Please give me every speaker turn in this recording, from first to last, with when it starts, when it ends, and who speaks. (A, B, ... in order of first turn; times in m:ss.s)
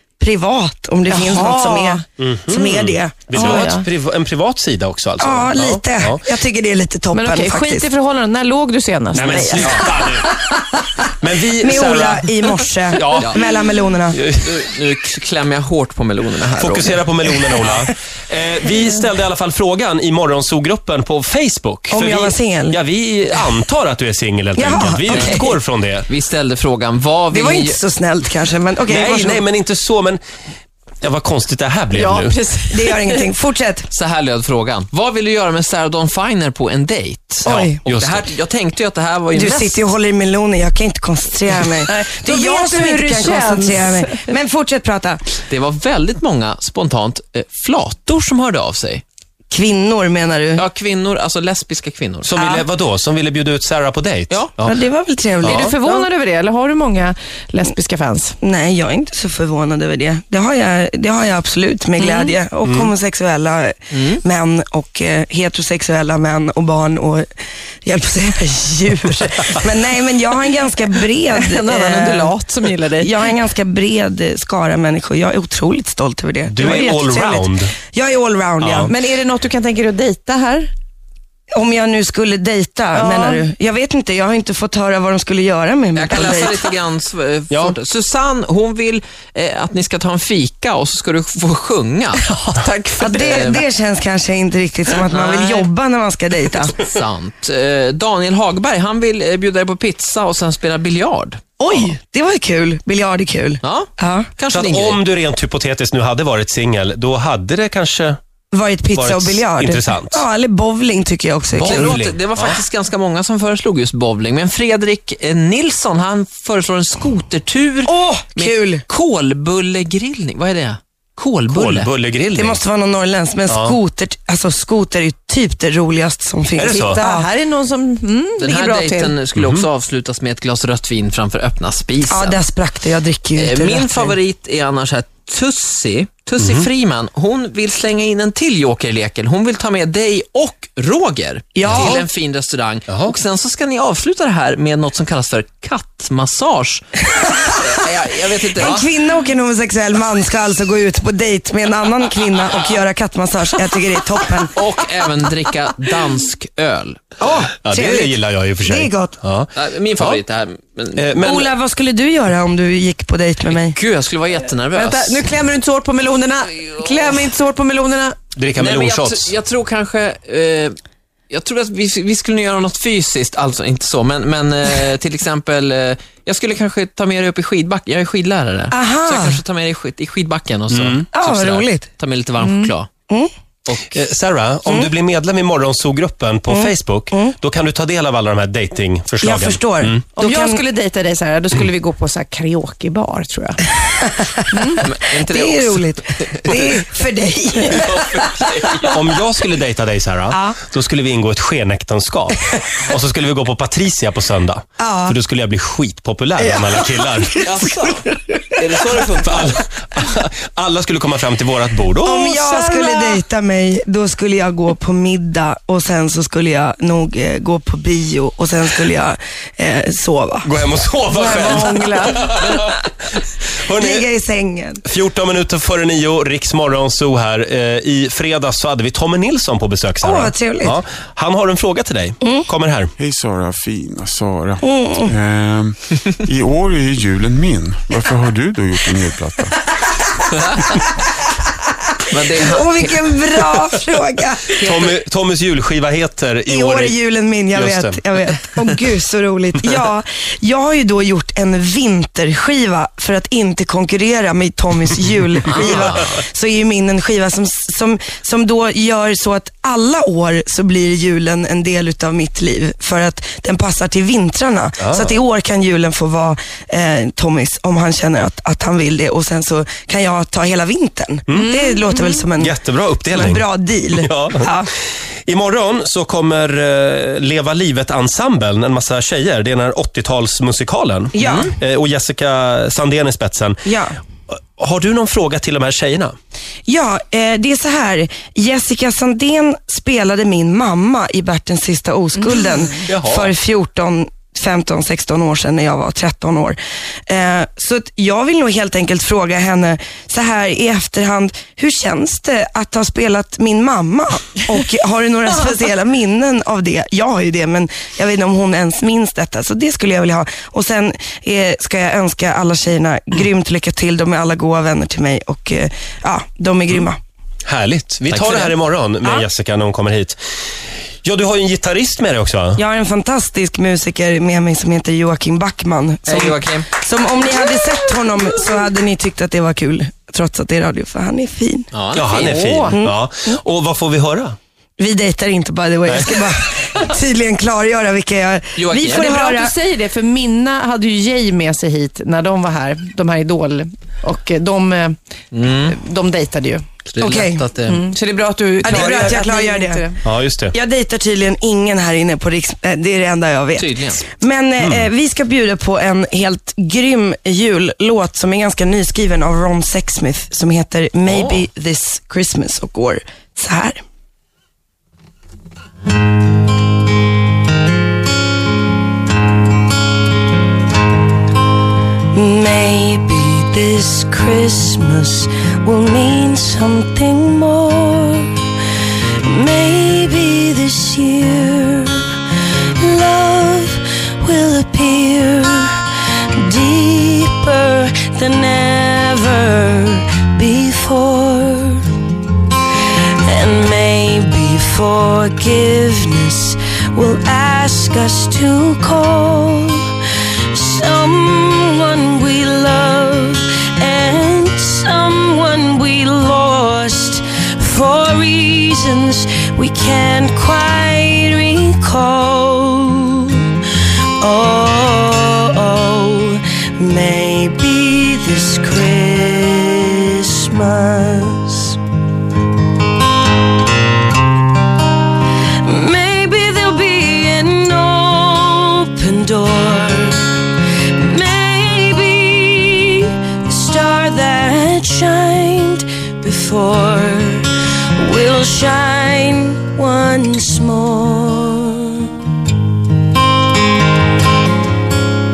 0:00.2-0:03.6 A
0:01.1-0:02.0 B
0:02.2-0:06.2 C
0:03.3-0:03.8 B
0:05.2-0:07.9 A
0:07.1-0:10.2 B
0:09.1-0:10.4 C
0:09.5-0:09.9 D
0:11.2-0:12.3 C
0:11.6-0:14.2 A
0:12.9-0:13.4 C
0:13.2-0:13.4 D
0:14.1-0:14.5 C
0:14.4-0:17.0 D
0:16.5-0:26.1 C
0:21.9-0:22.8 A
0:24.6-0:25.6 A
0:25.1-0:25.4 D
0:26.1-0:27.8 D
0:27.3-0:29.4 A
0:28.9-0:30.2 C
0:31.0-0:32.4 C
0:31.9-0:33.2 B
0:32.7-0:33.9 A
0:33.9-0:39.8 D
0:37.4-0:37.8 A
0:37.4-0:38.2 C
0:39.3-0:45.2 A
0:41.8-0:44.3 B
0:45.5-0:49.0 D
0:49.5-0:50.6 A
0:50.6-0:52.3 D
0:52.2-0:54.8 C
0:52.4-0:52.6 A
0:54.6-0:56.1 A
0:55.4-0:58.3 B
0:55.4-0:55.7 C
0:58.4-1:07.3 A
1:02.0-1:02.3 B
1:02.6-1:02.9 C
1:03.9-1:04.2 D
1:07.8-1:12.3 A
1:11.3-1:13.1 B
1:13.0-1:18.9 A
1:16.5-1:17.7 C
1:18.6-1:18.9 C
1:18.8-1:20.7 B
1:21.5-1:26.6 A
1:22.9-1:23.4 B
1:25.9-1:33.6 D
1:27.5-1:27.8 C
1:32.6-1:33.6 B
1:33.0-1:36.7 A
1:35.0-1:35.7 D
1:36.8-1:41.4 D
1:41.6-1:44.3 A
1:43.6-1:45.0 D
1:44.5-1:48.2 C
1:48.5-1:52.0 A
1:48.9-1:50.2 C
1:51.5-2:01.9 D
1:51.6-1:52.6 C
1:57.8-1:58.8 A
2:01.5-2:02.6 C
2:02.3-2:07.3 A
2:03.5-2:03.8 C
2:06.6-2:07.0 C
2:06.7-2:09.1 B
2:08.4-2:12.4 D
2:09.4-2:09.6 C
2:12.1-2:14.2 A
2:13.4-2:28.9 D
2:16.4-2:16.7 C
2:21.5-2:22.0 A
2:22.9-2:23.1 C
2:28.5-2:34.5 A
2:34.6-2:37.0 D
2:37.2-2:39.1 A
2:37.6-2:40.2 C
2:39.5-2:41.0 D
2:41.0-2:41.5 C
2:41.2-2:43.8 A
2:43.5-2:45.2 D
2:44.7-2:48.2 B
2:48.3-2:49.3 C
2:48.6-2:50.8 D
2:51.3-3:02.9 D
2:58.7-2:59.4 A
3:00.7-3:01.0 C
3:01.1-3:01.9 A
3:02.4-3:02.7 B
3:03.7-3:04.0 D
3:03.9-3:10.0 C
3:04.6-3:04.9 A
3:06.5-3:07.3 A
3:09.2-3:10.6 A
3:10.2-3:13.8 B
3:14.0-3:14.3 A
3:14.5-3:14.8 B
3:14.8-3:16.7 D
3:15.2-3:18.2 A
3:17.6-3:19.0 D
3:18.8-3:27.4 C
3:20.3-3:20.6 A
3:24.8-3:25.1 A
3:26.4-3:28.3 A
3:27.4-3:29.6 D
3:29.2-3:32.2 C
3:32.0-3:40.5 A
3:32.5-3:33.2 B
3:40.4-3:42.8 C
3:41.1-3:42.4 B
3:43.6-3:44.1 C
3:43.8-3:44.8 A
3:44.8-3:52.9 C
3:50.0-3:50.8 A
3:53.0-3:59.5 E
3:54.6-3:55.1 A
4:02.1-4:02.9 D
4:02.4-4:04.7 A
4:04.6-4:07.0 C
4:04.6-4:04.9 D
4:06.5-4:34.7 A
4:07.5-4:08.0 C
4:15.6-4:16.0 C
4:24.8-4:25.1 C
4:31.3-4:31.5 C
4:31.3-4:32.0 B
4:32.4-4:33.4 C
4:34.0-4:34.5 C
4:35.3-4:43.6 C
4:41.1-4:41.5 A
4:43.6-4:44.0 A
4:44.3-4:46.1 C
4:46.7-5:17.0 A
4:52.9-4:53.3 C
5:17.4-5:20.2 C
5:18.1-5:18.5 D
5:21.0-5:22.6 C
5:22.6-5:31.7 A
5:26.1-5:26.7 D
5:31.7-5:32.7 D
5:31.9-5:34.4 C
5:32.1-5:32.7 B
5:32.7-5:33.0 A
5:34.8-5:39.5 A
5:35.9-5:36.2 C
5:38.6-5:39.1 D
5:38.8-5:46.6 B
5:45.3-5:45.8 D
5:46.9-5:47.8 D
5:47.0-5:47.5 A
5:47.6-5:50.0 B
5:48.6-5:49.8 A
5:50.0-5:50.5 C
5:50.5-6:03.8 A
5:53.6-5:54.0 D
5:54.6-5:54.9 C
6:01.1-6:01.4 D
6:12.1-6:18.3 A
6:19.2-6:22.1 A
6:22.8-6:31.9 A
6:33.2-6:39.9 A
6:40.5-6:53.5 A
6:54.2-7:01.8 A
7:05.6-7:10.3 A
7:10.9-7:22.1 A